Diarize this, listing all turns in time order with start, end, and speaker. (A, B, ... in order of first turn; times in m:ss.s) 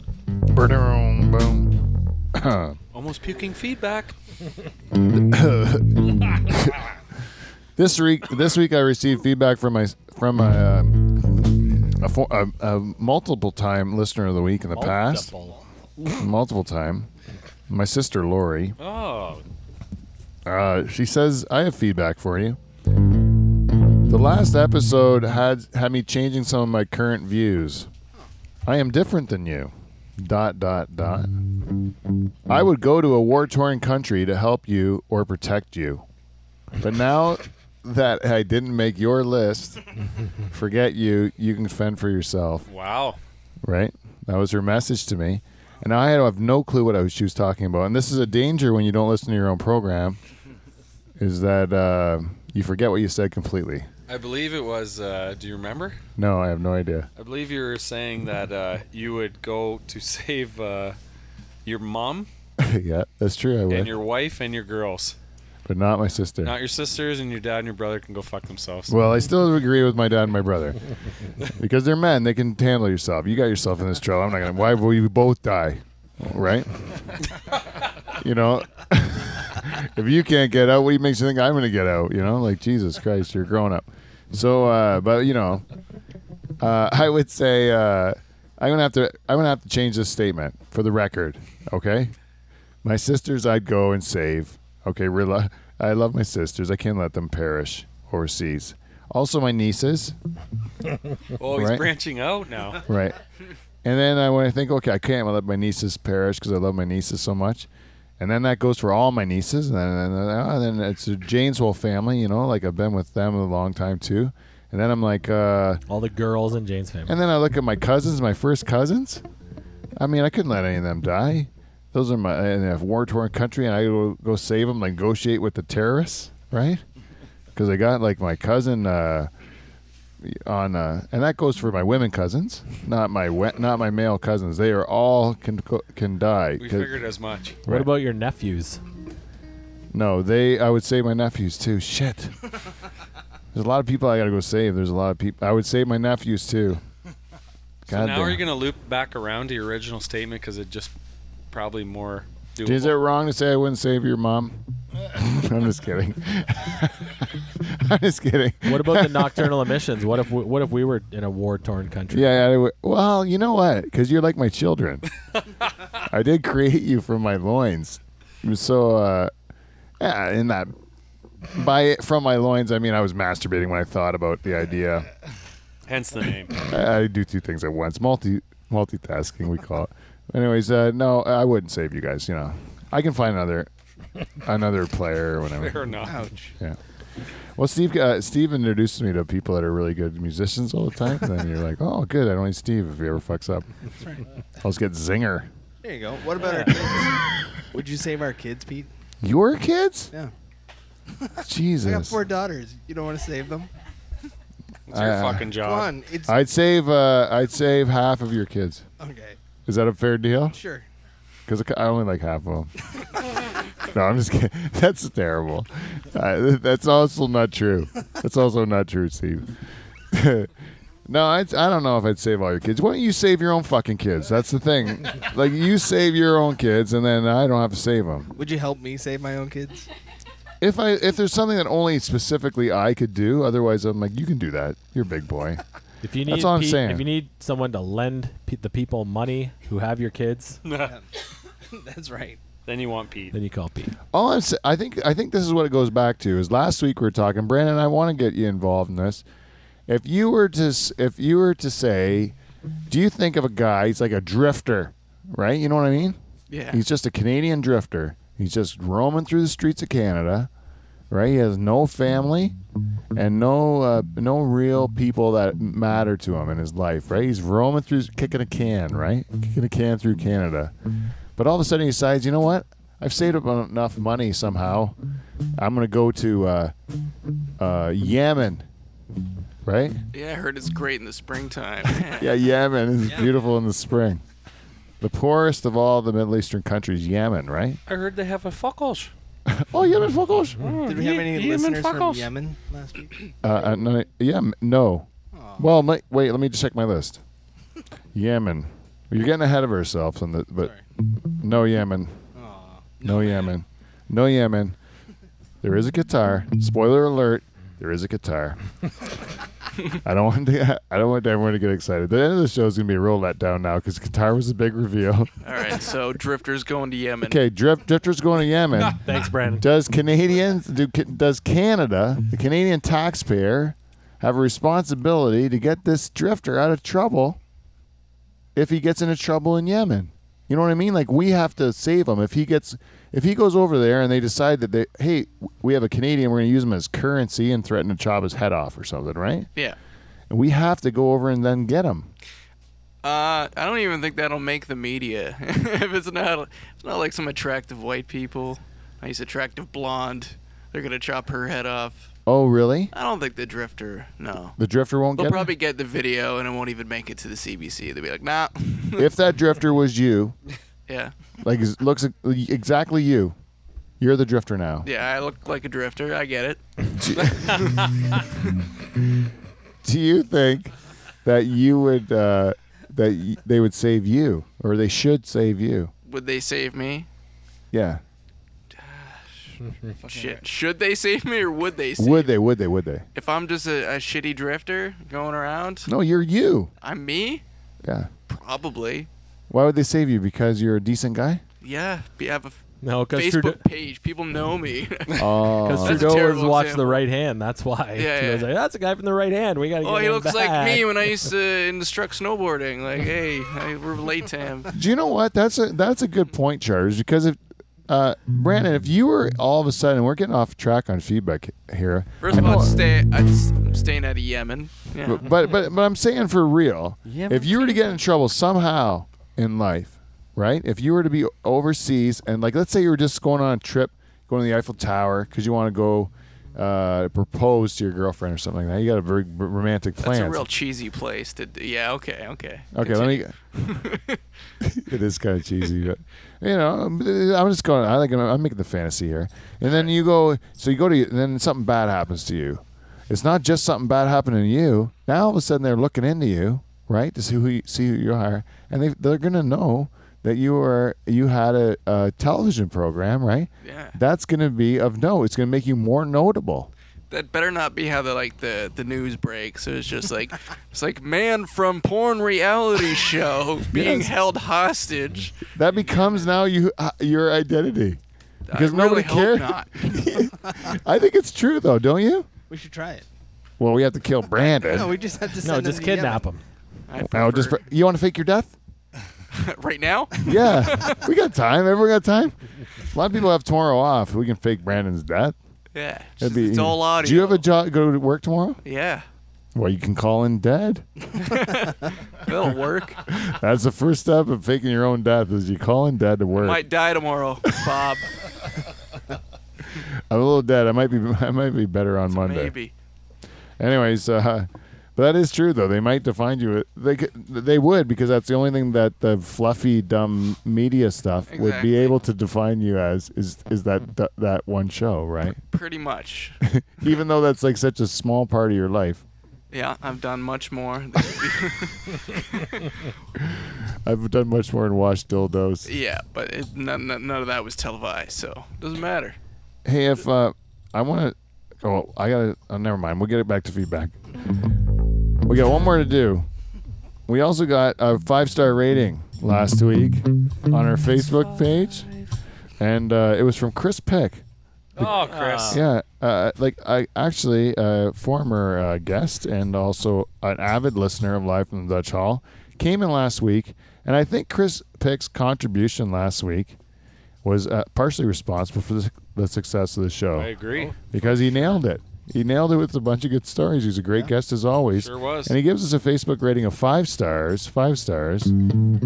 0:00.5-0:01.8 A
0:02.3-0:02.8 A
0:02.9-0:04.1 B
0:04.9-0:07.0 A
0:07.8-0:15.3 A
0:14.7-0:15.6 C
0:16.0-0:17.1 A
0:17.7-0:18.8 A
0:18.8-0:19.4 B
0:20.4-0:22.6 A
0:24.1-0:27.9 A
0:28.6-0:31.4 A
0:32.5-0:36.0 A
0:36.8-0:39.8 A
0:40.5-0:42.7 A
0:42.7-0:43.2 B
0:43.6-0:50.2 A
0:51.2-0:53.9 A
0:54.1-0:56.0 B
0:56.2-0:57.1 A
0:57.2-1:01.0 B
1:01.6-1:02.3 B
1:02.6-1:03.9 A
1:03.7-1:05.2 B
1:05.6-1:06.5 A
1:06.4-1:08.9 B
1:08.9-1:10.8 A
1:11.4-1:17.2 A
1:18.1-1:25.6 A
1:26.6-1:32.1 A
1:32.8-1:40.1 A
1:41.4-1:42.8 B
1:41.5-1:41.9 A
1:42.8-1:43.2 A
1:43.8-1:47.7 A
1:48.2-1:55.8 A
1:55.9-1:57.2 C
1:57.1-1:59.2 A
2:00.0-2:06.8 A
2:07.5-2:09.3 A
2:10.2-2:17.0 A
2:16.6-2:17.6 B
2:17.7-2:18.8 C
2:19.9-2:22.3 A
2:23.5-2:26.8 A
2:27.9-2:28.4 A
2:27.9-2:30.9 B
2:31.5-2:32.9 B
2:32.6-2:34.6 A
2:35.1-2:39.6 A
2:38.6-2:42.3 C
2:42.1-2:45.1 A
2:46.0-2:49.3 A
2:50.0-2:50.7 A
2:51.5-2:55.1 A
2:55.9-2:56.7 B
2:56.6-3:03.7 A
3:04.4-3:05.9 A
3:05.4-3:06.2 B
3:06.0-3:06.5 D
3:07.6-3:13.7 A
3:14.6-3:15.5 A
3:15.8-3:17.2 D
3:16.4-3:16.7 C
3:17.7-3:18.9 D
3:19.2-3:20.1 A
3:21.4-3:22.2 A
3:21.8-3:23.7 D
3:24.9-3:25.9 B
3:24.9-3:25.5 A
3:25.5-3:26.4 D
3:26.2-3:28.8 A
3:29.0-3:29.4 D
3:29.6-3:30.6 A
3:30.5-3:30.8 D
3:31.5-3:32.7 A
3:33.8-3:39.5 A
3:40.1-3:40.5 A
3:41.1-3:48.3 A
3:48.4-3:49.8 D
3:50.6-3:55.6 A
3:56.0-4:00.6 C
3:56.2-3:57.1 A
4:00.6-4:01.0 B
4:00.8-4:01.0 D
4:01.7-4:02.4 D
4:02.6-4:03.3 B
4:03.3-4:03.9 C
4:04.1-4:09.2 A
4:09.9-4:12.3 A
4:12.9-4:16.2 A
4:16.5-4:16.8 E
4:16.7-4:20.5 A
4:21.1-4:22.5 A
4:23.1-4:30.7 A
4:31.4-4:35.0 A
4:35.6-4:36.7 A
4:37.6-4:38.6 A
4:39.6-4:40.0 A
4:40.1-4:42.3 E
4:41.9-4:44.2 A
4:43.0-4:43.3 D
4:45.0-4:47.8 A
4:47.9-4:49.1 B
4:49.5-4:50.6 A
4:50.6-4:52.3 B
4:50.8-4:53.3 D
4:53.4-4:55.1 A
4:55.3-4:55.7 D
4:55.6-4:57.2 A
4:58.1-5:00.7 A
5:01.3-5:02.1 A
5:02.3-5:03.4 D
5:03.0-5:04.8 A
5:05.6-5:08.6 A
5:10.0-5:15.3 A
5:15.4-5:17.4 E
5:17.2-5:19.0 A
5:18.9-5:19.6 C
5:19.6-5:27.4 A
5:28.5-5:39.5 A
5:40.3-5:42.1 A
5:43.0-5:52.1 E
5:52.3-5:52.9 A
5:52.9-5:54.5 E
5:54.6-5:55.5 A
5:55.2-5:59.1 E
5:59.0-6:00.3 A
6:00.9-6:01.1 E
6:01.4-6:03.3 A
6:04.0-6:04.9 A
6:04.8-6:06.6 E
6:07.0-6:07.7 A
6:07.5-6:08.1 B
6:09.8-6:15.9 A
6:16.0-6:17.1 E
6:17.7-6:18.0 A
6:18.7-6:22.4 E
6:22.0-6:23.0 A
6:23.1-6:25.9 E
6:25.8-6:26.7 A
6:26.8-6:27.4 E
6:27.8-6:28.1 A
6:28.3-6:29.1 E
6:29.5-6:31.4 A
6:31.6-6:32.6 E
6:32.8-6:33.6 C
6:33.1-6:37.0 E
6:35.2-6:36.2 A
6:35.6-6:40.9 C
6:38.0-6:38.5 E
6:39.8-6:44.7 E
6:44.7-6:52.8 A
6:52.2-6:55.3 E
6:55.0-7:10.5 A
7:10.0-7:14.2 E
7:12.7-7:13.3 A
7:14.6-7:36.7 A
7:33.6-7:34.0 E
7:37.1-7:46.3 E
7:43.7-7:44.1 A
7:45.5-7:48.0 A
7:48.5-7:49.8 E
7:48.5-7:52.3 A
7:52.5-7:53.0 D
7:53.6-7:54.9 A
7:54.4-7:56.2 D
7:55.4-7:56.4 C
7:56.9-7:57.6 E
7:57.0-7:58.5 A
7:59.3-8:01.0 E
8:00.2-8:05.3 A
8:05.7-8:07.4 E
8:06.2-8:08.6 A
8:08.6-8:09.0 E
8:09.5-8:10.8 A
8:11.1-8:13.0 E
8:13.1-8:16.6 A
8:16.3-8:18.1 E
8:20.1-8:22.5 A
8:22.1-8:22.7 E
8:23.6-8:35.4 A
8:31.3-8:32.0 E
8:35.5-8:36.9 E
8:36.4-8:39.0 A
8:39.5-8:42.6 E
8:43.3-8:45.7 A
8:45.6-8:49.2 E
8:49.6-8:53.9 A
8:55.2-8:56.3 A
8:57.1-9:01.8 A
9:00.9-9:02.2 B
9:02.6-9:04.2 A
9:04.8-9:05.6 B
9:04.8-9:05.6 C
9:05.5-9:16.6 A
9:17.2-9:20.3 A
9:20.1-9:20.7 B
9:20.9-9:28.3 A
9:24.7-9:25.4 B